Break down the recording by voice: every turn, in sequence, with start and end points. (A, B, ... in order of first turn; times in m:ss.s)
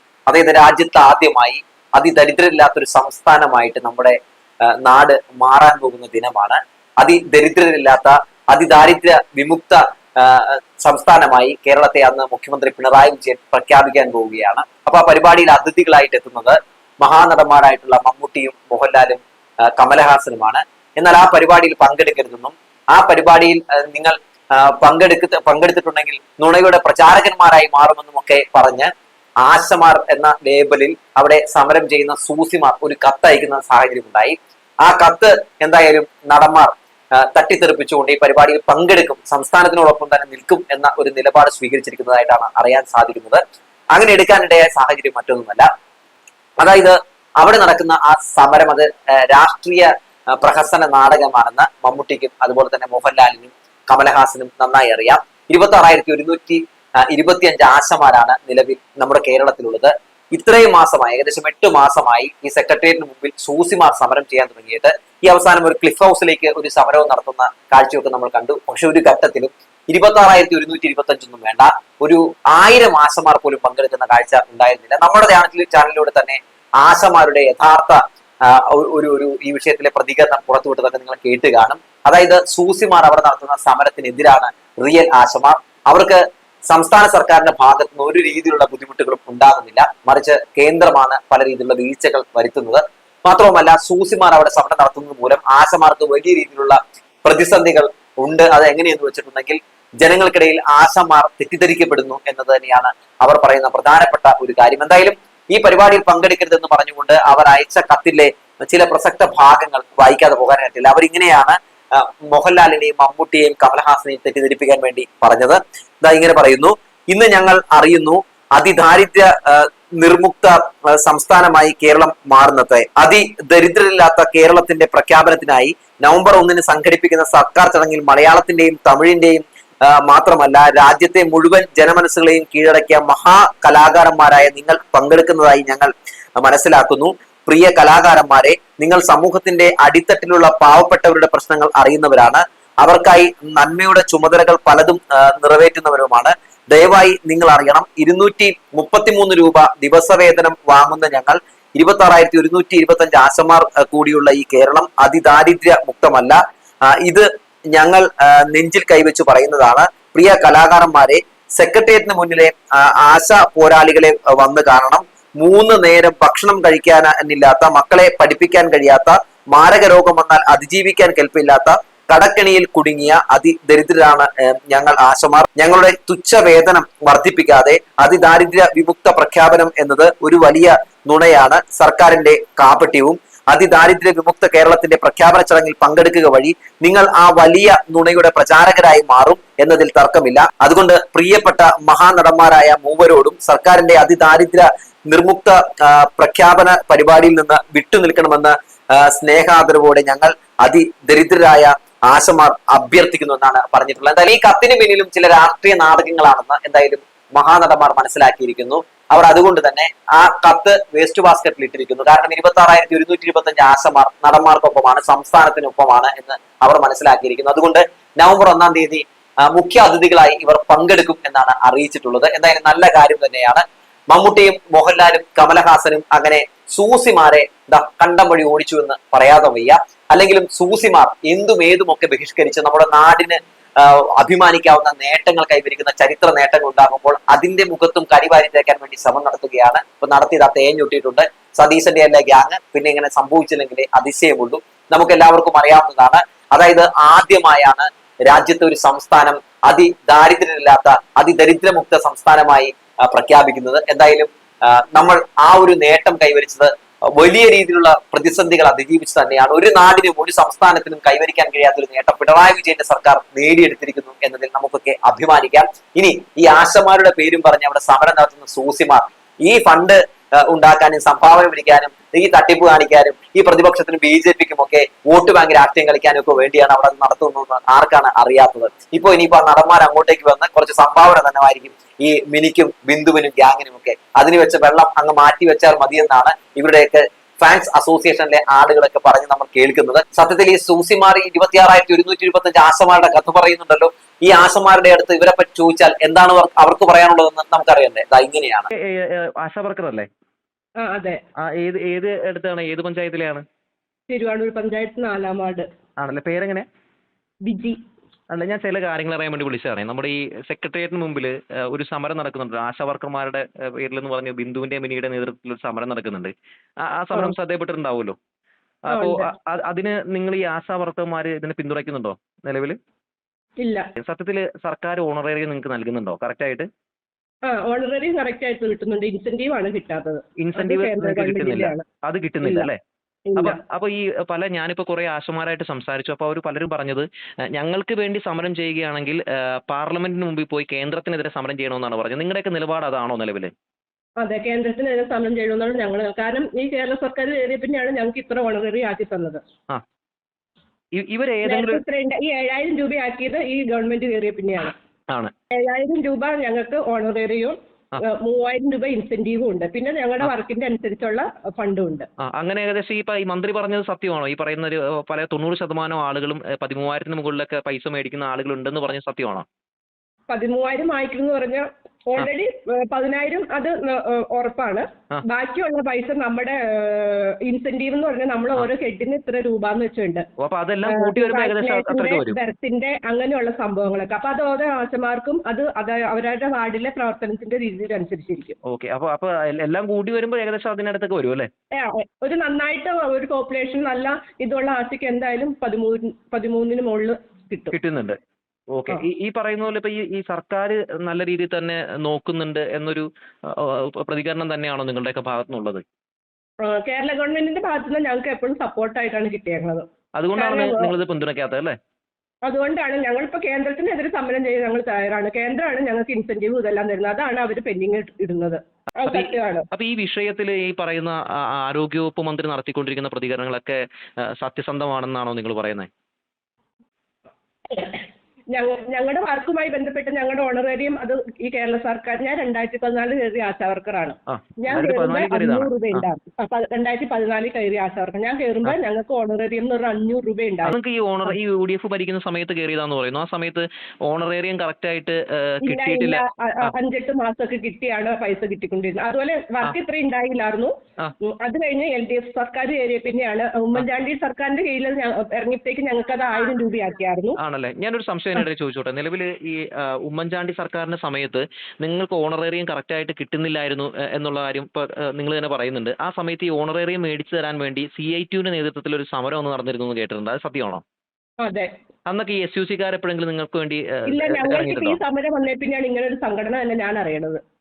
0:00.3-0:04.2 A
0:04.8-0:28.9 A
0:29.4-0:43.4 A
0:43.9-0:45.7 A
0:46.6-2:36.4 A
2:36.9-4:58.7 A
4:58.9-5:00.1 B
5:00.8-5:01.2 C
5:01.5-5:03.4 B
5:04.1-5:05.6 C
5:06.0-5:06.6 B
5:07.4-5:07.8 C
5:08.3-5:16.3 B
5:16.9-5:18.2 B
5:18.8-5:22.8 B
5:18.9-5:19.2 C
5:24.0-5:26.6 B
5:27.4-5:31.8 C
5:30.4-5:32.8 B
5:32.4-5:32.7 C
5:33.3-5:33.6 C
5:33.4-5:43.5 B
5:44.2-5:49.4 C
5:51.0-5:51.8 B
5:51.4-5:54.7 C
5:55.5-6:02.1 C
6:02.4-6:09.4 B
6:10.3-6:20.2 C
6:20.4-6:22.4 B
6:20.8-6:28.5 C
6:28.7-6:31.5 B
6:31.8-6:37.7 C
6:37.7-6:38.2 B
6:38.7-6:45.8 B
6:46.6-6:49.8 C
6:50.2-6:51.7 B
6:50.4-6:50.9 C
6:52.4-6:59.7 C
6:59.0-7:03.8 B
7:04.4-7:05.9 B
7:07.7-7:21.3 C
7:14.3-7:16.1 B
7:20.6-7:26.7 B
7:25.6-7:30.7 C
7:31.4-7:37.4 C
7:37.4-7:50.8 B
7:51.4-7:51.7 C
7:52.1-7:55.0 B
7:54.1-7:57.4 C